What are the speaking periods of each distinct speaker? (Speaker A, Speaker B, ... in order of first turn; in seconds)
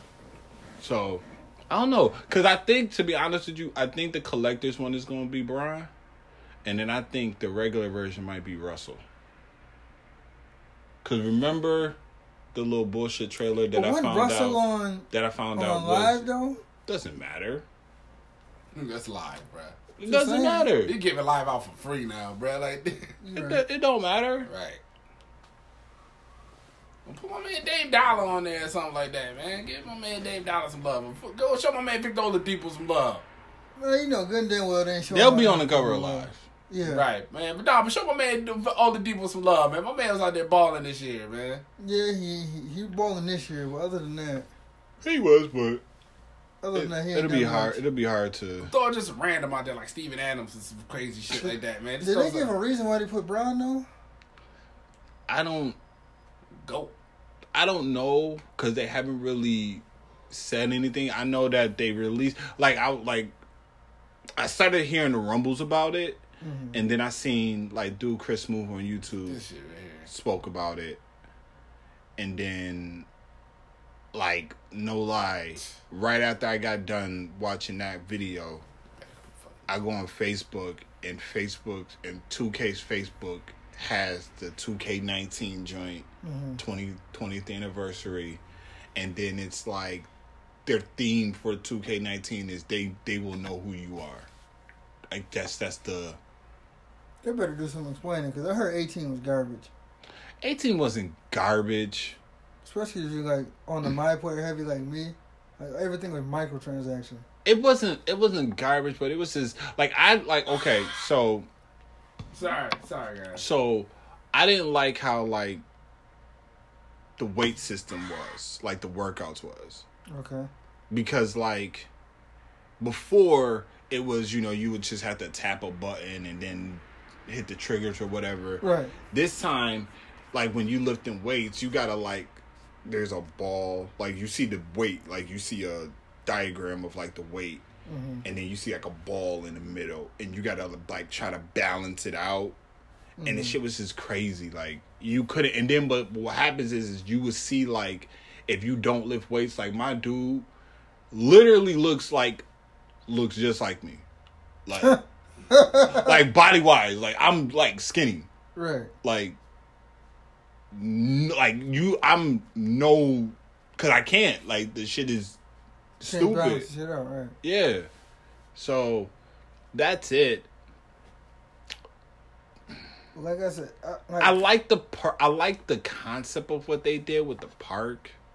Speaker A: 0.8-5.9, 6.6-9.0, 11.0-12.0, 12.5-16.2, 16.8-17.6, 20.0-20.9, 23.3-24.5, 35.1-36.4, 45.0-45.8, 46.7-48.7, 55.3-55.8, 57.5-63.3, 64.4-66.2, 66.7-69.4, 70.1-71.0, 72.2-73.1, 74.1-78.6, 79.7-86.0, 86.6-88.4, 88.9-90.1, 90.7-94.3, 95.1-96.2, 100.4-102.2, 107.4-111.5, 113.3-115.6, 117.2-119.8, 120.9-121.9, 122.8-137.6, 138.2-142.6, 143.2-150.5, 151.1-152.4, 153.1-154.0, 154.7-155.0, 155.8-158.3, 159.0-159.4, 160.7-165.4, 166.0-166.7, 167.4-167.9, 168.5-169.1, 169.7-170.5, 174.2-178.1
Speaker B: 13.7-16.6, 20.0-20.7, 23.2-23.6, 33.8-37.0, 41.8-44.5, 46.6-47.8, 52.0-53.9, 66.4-66.8, 86.2-86.6, 97.2-99.7, 102.6-107.2, 120.1-120.5, 128.6-128.9, 137.9-138.2, 143.2-143.6, 154.8-156.2, 158.5-158.9, 166.0-167.3, 173.1-174.4
Speaker C: 18.7-19.8, 20.8-23.1, 24.5-24.8, 27.1-33.2, 36.8-41.6, 48.6-52.5, 56.6-56.9, 69.2-70.1, 112.3-113.5